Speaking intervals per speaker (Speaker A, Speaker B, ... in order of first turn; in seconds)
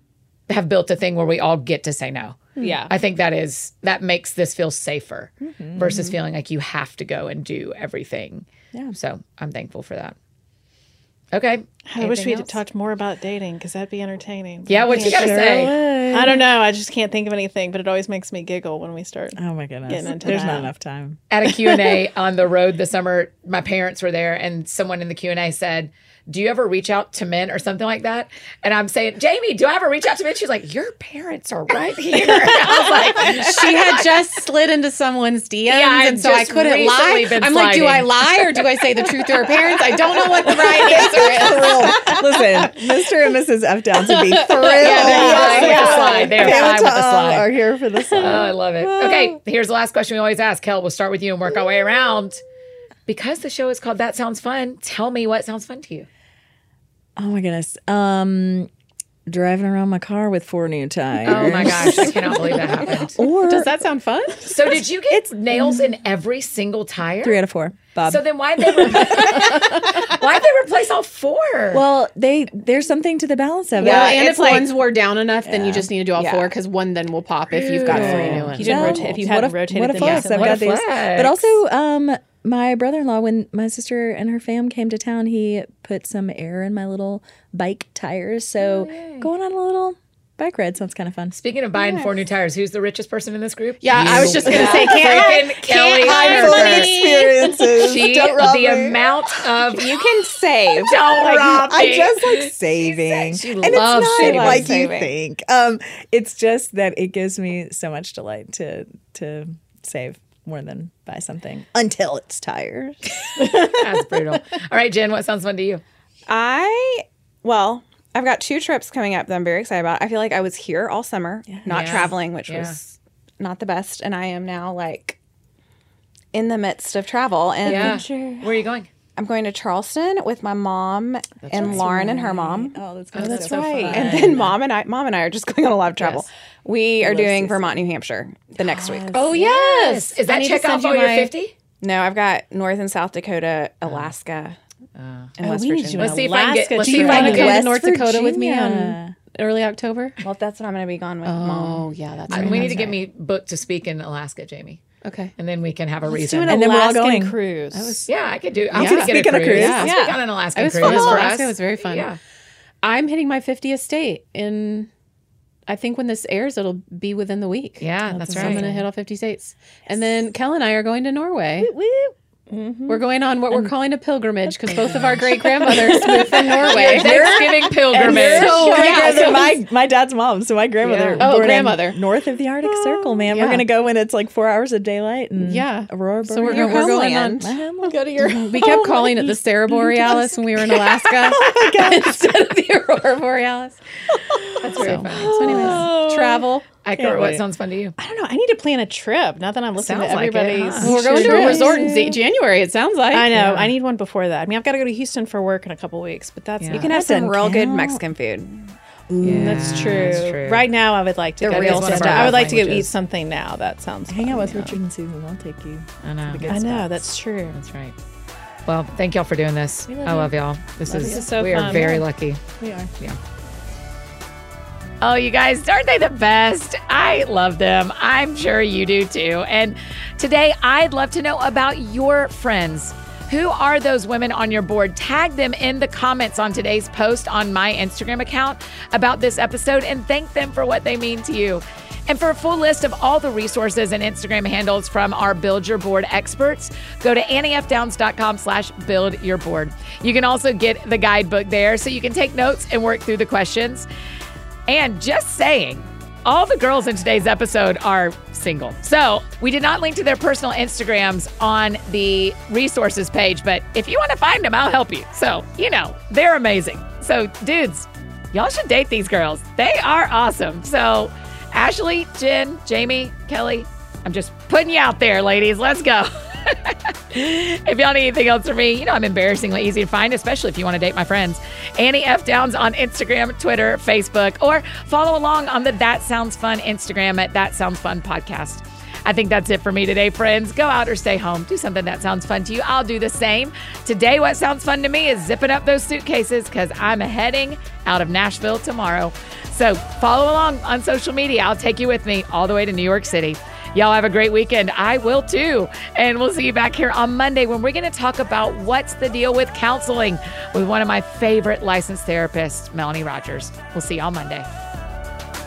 Speaker A: 0.5-10.2, 11.3-12.6, 14.7-15.8, 21.3-34.1, 35.7-38.4, 44.8-47.6, 48.2-52.4, 53.1-56.1, 61.2-63.1, 64.5-67.4, 68.1-71.8, 79.9-81.6, 88.6-89.3, 91.3-97.0, 97.7-100.1, 100.8-104.7, 113.2-115.8, 121.7-122.8, 127.7-128.9, 131.4-131.9, 134.0-134.5, 136.0-136.3, 139.3-141.5, 143.8-144.1, 145.0-145.4, 145.9-147.6, 152.3-154.8, 155.4-156.6, 158.1-162.2, 167.8-168.8, 176.6-179.6, 180.8-181.3, 194.6-195.9, 196.8-197.9, 199.8-201.5, 203.4-203.7, 206.6-206.9, 209.2-210.7, 211.5-212.9, 216.0-216.6, 217.5-217.9, 218.7-222.4, 225.0-253.9, 254.7-314.5
Speaker B: 2.6-2.8, 5.4-6.2, 14.9-16.5, 19.4-22.0, 40.4-49.4, 57.2-58.7, 59.3-63.7, 65.1-66.0, 67.2-69.8, 71.7-74.3, 75.5-75.9, 77.8-91.4, 94.0-99.4, 101.1-113.7, 121.5-122.1, 127.7-128.6, 131.5-134.5, 137.0-137.8, 138.6-139.5, 146.8-149.1, 152.3-152.8, 156.5-157.4, 158.7-160.0, 168.1-168.7, 171.6-172.2, 174.5-192.4, 194.2-197.4, 201.0-202.2, 206.8-208.0, 209.1-210.3, 211.5-212.5, 214.1-217.1, 219.9-220.4, 221.4-222.1, 222.6-223.0
Speaker C: 2.6-2.9, 11.9-15.4, 16.1-20.7, 45.0-46.0, 78.5-80.7, 133.8-134.2, 145.4-147.7, 156.1-158.1, 172.5-173.0, 187.8-188.7, 198.0-201.9, 203.1-206.9, 209.3-214.8, 216.5-217.6, 220.9-222.0
Speaker D: 33.2-42.2, 44.1-46.6, 63.0-64.7, 73.8-79.2, 93.8-97.7, 133.2-133.5, 139.1-141.3, 146.9-150.2, 151.2-153.0, 155.0-155.3, 158.7-162.1, 162.8-164.9, 165.7-171.7, 172.9-177.5, 178.0-179.5, 181.2-182.0, 183.3-183.7, 185.4-187.4, 188.1-193.8, 194.8-196.7, 200.7-203.5
Speaker E: 73.8-74.7, 76.2-76.5, 77.6-78.6, 91.8-92.1, 99.8-101.5, 104.0-105.1, 116.3-125.2, 126.3-128.1, 129.2-139.2, 141.8-144.6, 145.4-146.3, 150.2-151.9, 186.4-187.6, 206.8-208.7